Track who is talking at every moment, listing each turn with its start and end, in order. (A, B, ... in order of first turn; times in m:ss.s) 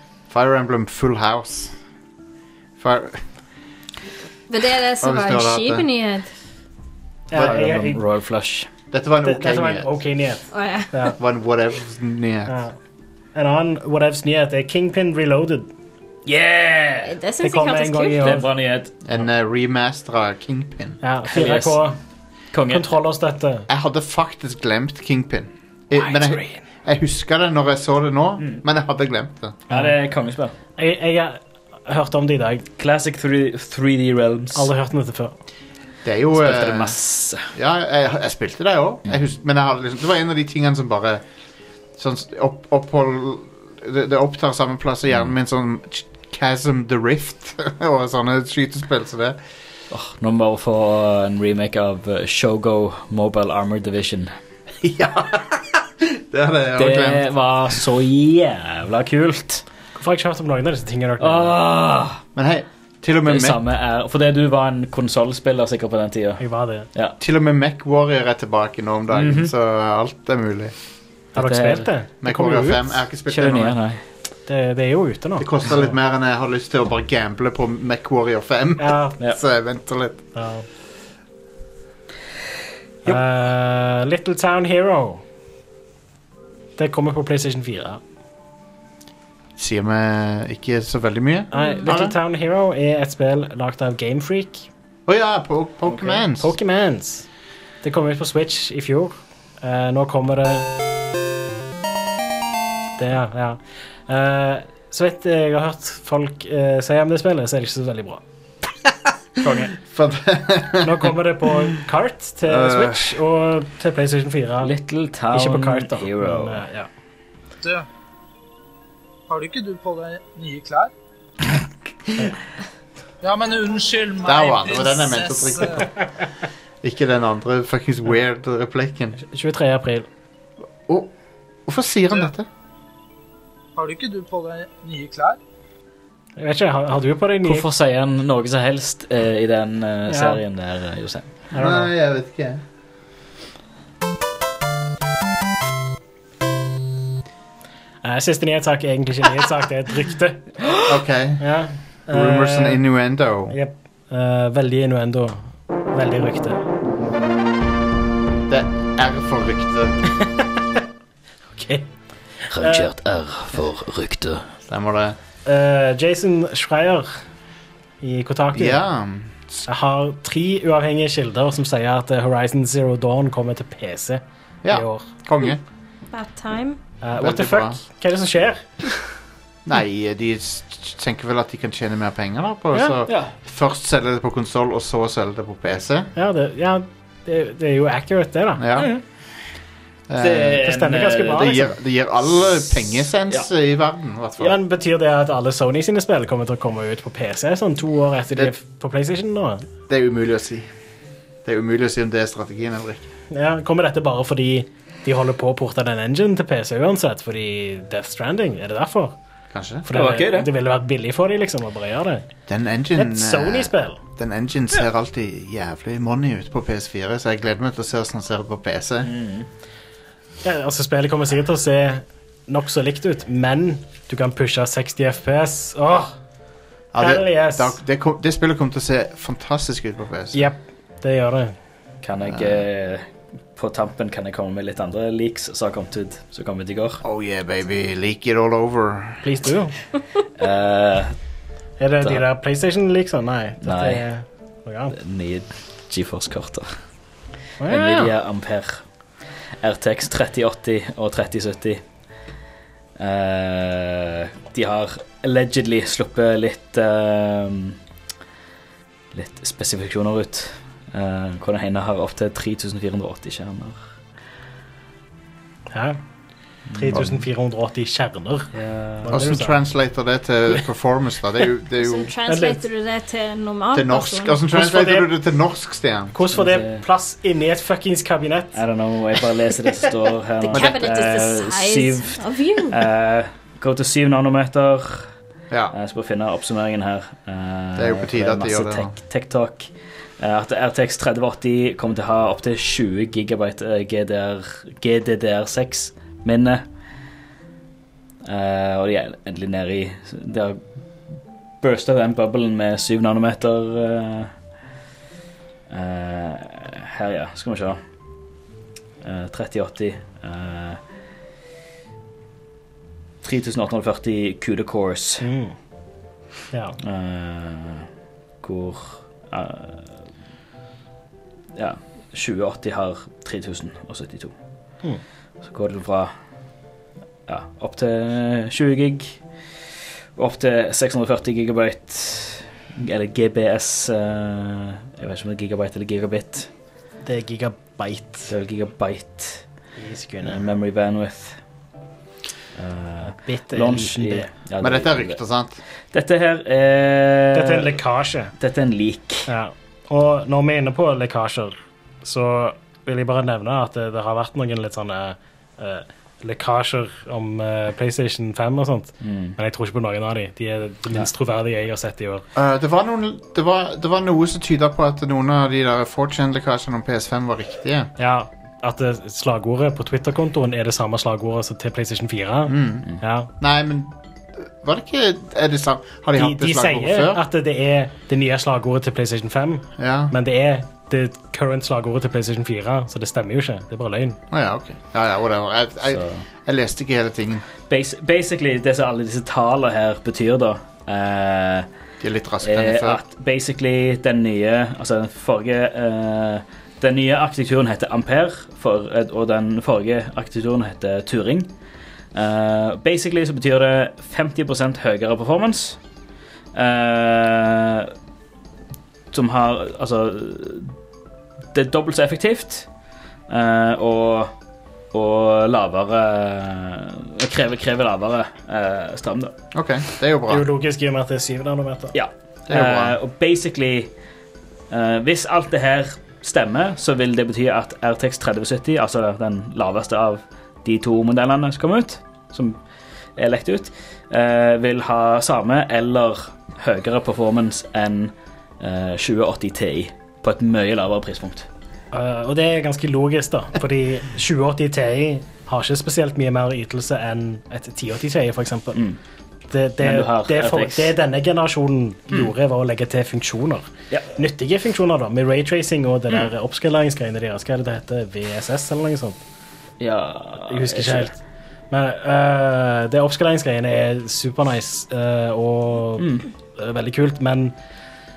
0:00.3-0:01.7 A
0:02.8-0:03.2 A
0:04.5-0:06.3 B
0:05.0-0:05.8 A
0:07.3-0:08.0 C
0:07.3-0:07.6 A
0:07.3-0:08.7 D
0:08.9-0:10.0 A
0:09.2-0:11.1 C
0:10.5-0:11.1 B
0:11.2-0:12.6 A
0:12.5-0:12.7 C
0:13.3-0:15.7 C
0:16.2-0:17.1 D
0:17.0-0:18.4 B
0:17.4-0:18.4 C
0:18.2-0:18.9 D
0:19.0-0:21.0 A
0:21.0-0:22.0 C
0:21.3-0:21.8 D
0:22.5-0:22.8 D
0:22.7-0:23.7 C
0:23.7-0:29.6 A
0:26.0-0:26.6 C
0:28.4-0:28.6 D
0:29.7-0:30.5 D
0:30.8-0:32.6 C
0:32.8-0:34.7 D
0:34.5-0:35.3 C
0:36.0-0:37.0 A
0:36.3-0:37.5 D
0:37.5-0:41.2 A
0:42.0-0:49.4 A
0:49.9-0:54.3 D
0:54.8-0:57.2 A
0:56.8-0:59.6 D
1:00.0-1:01.6 C
1:01.2-1:02.2 D
1:02.3-1:03.6 A
1:03.2-1:06.4 D
1:06.4-1:06.9 C
1:07.2-1:10.7 A
1:09.1-1:09.5 D
1:11.4-1:11.9 D
1:11.4-1:13.0 C
1:12.2-1:13.8 A
1:13.3-1:14.0 D
1:14.5-1:15.9 C
1:15.4-1:20.2 A
1:18.8-1:19.2 C
1:20.3-1:20.6 C
1:23.0-1:25.2 C
1:26.8-1:28.0 C
1:29.6-1:32.1 A
1:31.5-1:34.7 C
1:31.6-1:31.8 B
1:35.1-1:36.5 A
1:36.4-1:37.2 C
1:37.8-1:40.7 C
1:43.0-1:48.2 C
1:49.4-1:51.1 A
1:49.4-1:49.7 D
1:50.8-1:54.7 C
1:52.4-1:53.2 A
1:54.6-1:56.6 D
1:55.3-1:56.9 C
1:57.6-1:57.9 E
1:59.3-2:00.9 E
2:03.2-2:05.8 E
2:04.2-2:06.0 A
2:06.8-2:09.2 A
2:09.2-2:10.1 C
2:10.9-2:11.1 A
2:11.6-2:12.5 A
2:13.7-2:15.4 E
2:16.4-2:17.6 C
2:17.4-2:21.3 D
2:20.1-2:20.4 C
2:21.5-2:21.9 C
2:21.6-2:22.6 A
2:28.0-2:30.5 C
2:30.8-2:31.4 A
2:31.4-2:32.8 C
2:32.1-2:33.6 A
2:33.5-2:35.4 C
2:35.9-2:36.6 C
2:38.5-2:40.0 A
2:41.5-2:41.9 C
2:42.5-2:44.5 D
2:42.6-2:42.8 C
2:44.7-2:45.2 A
2:45.4-2:47.1 C
2:48.0-2:48.8 C
2:48.5-2:49.6 A
2:49.7-2:55.0 C
2:54.6-2:55.6 A
2:56.1-2:56.8 B
2:57.0-2:59.0 C
2:57.2-2:57.8 A
2:59.6-3:06.1 A
3:03.1-3:03.3 D
3:06.2-3:08.9 C
3:08.6-3:08.9 A
3:10.1-3:10.7 A
3:10.2-3:11.5 D
3:10.6-3:11.7 C
3:11.2-3:14.6 A
3:14.4-3:19.7 C
3:19.9-3:20.7 A
3:21.4-3:23.1 A
3:23.3-3:29.1 C
3:29.5-3:29.9 A
3:29.9-3:32.3 C
3:29.9-3:30.5 D
3:32.5-3:39.1 A
3:32.9-3:34.0 C
3:39.0-3:39.5 D
3:40.4-3:46.1 C
3:46.9-3:50.5 A
3:47.0-3:47.7 C
3:50.3-3:51.5 C
3:52.0-3:57.0 D
3:52.2-3:52.6 A
3:57.0-3:59.2 A
3:59.2-3:59.7 C
4:00.4-4:01.1 D
4:01.8-4:04.9 C
4:03.6-4:04.0 D
4:04.9-4:06.7 D
4:07.6-4:08.1 C
4:07.6-4:08.8 D
4:09.6-4:11.8 D
4:13.0-4:17.8 D
4:19.1-4:23.8 D
4:25.7-4:26.0 C
4:26.7-4:27.1 D
4:26.7-4:28.5 C
4:28.5-4:29.1 D
4:29.0-4:29.6 C
4:29.1-4:32.1 A
4:31.8-4:34.4 B
4:32.3-4:32.6 C
4:33.7-4:36.1 A
4:34.5-4:35.1 C
4:36.1-4:38.5 C
4:36.3-4:36.8 D
4:38.5-4:45.1 D
4:40.4-4:42.8 B
4:40.5-4:40.8 A
4:45.5-4:45.7 A
4:45.7-4:56.6 D
4:47.8-4:48.9 A
4:58.2-5:00.6 D
5:01.6-5:04.3 D
5:05.7-5:07.8 D
5:09.0-5:10.8 D
5:13.2-5:15.2 D
5:15.2-5:15.5 C
5:16.8-5:17.9 D
5:18.4-5:20.0 D
5:21.5-5:24.3 D
5:25.4-5:26.1 D
5:27.3-5:29.2 D
5:30.2-5:36.5 D
5:37.0-5:38.3 C
5:38.3-5:39.4 D
5:39.8-5:40.4 C
5:40.2-5:41.4 D
5:42.6-5:45.2 D
5:43.0-5:44.3 C
5:44.6-5:45.6 A
5:45.9-5:47.8 D
5:47.3-5:48.3 C
5:48.4-5:49.3 D
5:49.3-6:02.2 C
5:59.0-5:59.4 D
6:02.3-6:07.9 A
6:08.0-6:13.3 C
6:12.5-6:12.9 A
6:13.4-6:17.2 A
6:16.2-6:24.2 C
6:19.8-6:20.1 A
6:24.3-6:27.5 A
6:25.9-6:26.2 D
6:27.7-6:31.7 D
6:32.0-6:33.0 A
6:32.4-6:41.5 D
6:42.1-6:45.8 D
6:46.5-6:47.9 D
6:49.1-6:50.7 D
6:51.5-6:52.7 D
6:53.3-6:54.3 D
6:54.9-6:59.3 D
6:59.5-7:00.5 A
7:00.3-7:01.9 C
7:01.9-7:03.9 D
7:02.5-7:03.0 A
7:04.7-7:12.6 D
7:13.2-7:21.5 D
7:21.9-7:28.8 C
7:29.5-7:39.2 C
7:29.8-7:30.9 D
7:39.8-7:41.1 D
7:40.5-7:41.1 C
7:41.7-7:47.5 C
7:46.0-7:46.3 D